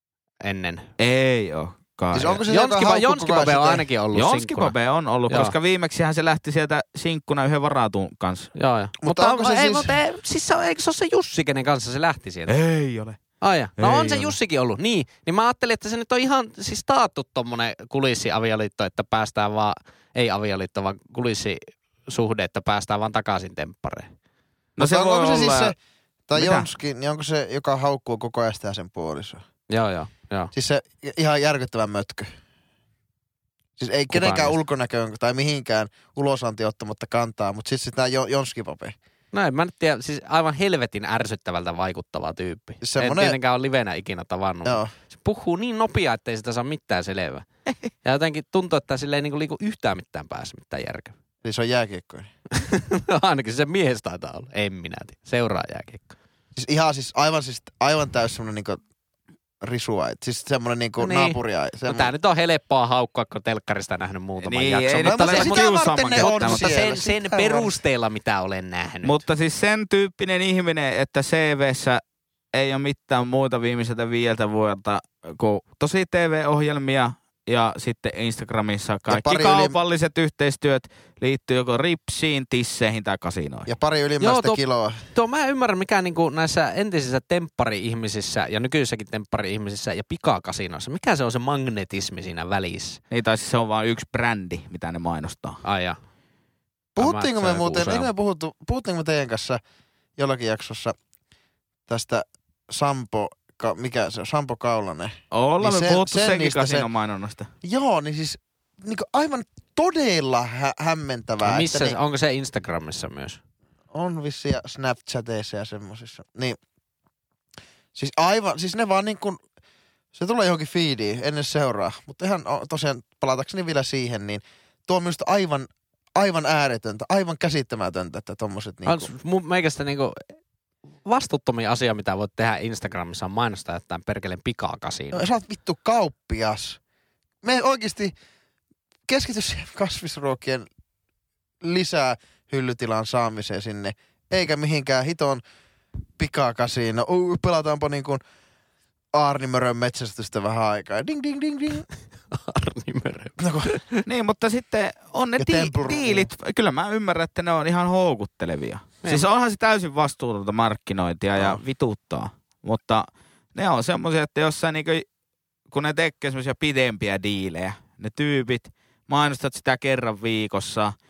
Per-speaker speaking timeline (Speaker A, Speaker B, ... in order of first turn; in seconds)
Speaker A: 0.4-0.9, 2.5-4.7, 5.3-5.5, 8.6-12.6, 13.4-24.1, 29.7-30.5, 34.1-34.6, 39.3-47.5, 48.0-51.1, 52.5-56.1, 61.0-65.6, 66.1-69.2, 84.2-84.6, 85.1-93.0, 95.6-96.0, 97.0-98.1, 111.4-113.4, 128.8-130.3, 131.0-135.2, 152.3-154.0
Speaker B: 1.0-2.4, 4.1-8.5, 12.5-13.2, 13.8-14.3, 24.8-25.7, 26.4-26.7, 64.4-66.8, 69.0-72.0, 72.5-83.7, 93.1-95.6, 105.3-107.5, 154.0-165.0, 165.7-170.9
Speaker C: 2.1-3.9, 9.0-9.9, 24.8-25.8, 26.3-29.4, 30.5-32.3, 33.8-39.0, 42.8-43.4, 44.6-44.9, 51.4-52.3, 56.5-58.8, 59.6-62.1, 65.0-67.7, 79.1-79.8, 83.7-85.1, 96.9-99.6, 100.2-101.0, 101.9-106.9, 107.6-112.0, 113.9-116.6, 117.9-119.4, 120.1-129.1, 135.1-136.8, 137.4-138.1, 139.1-140.7, 141.6-145.4, 146.2-148.2, 149.1-151.8, 153.4-153.7, 155.4-156.3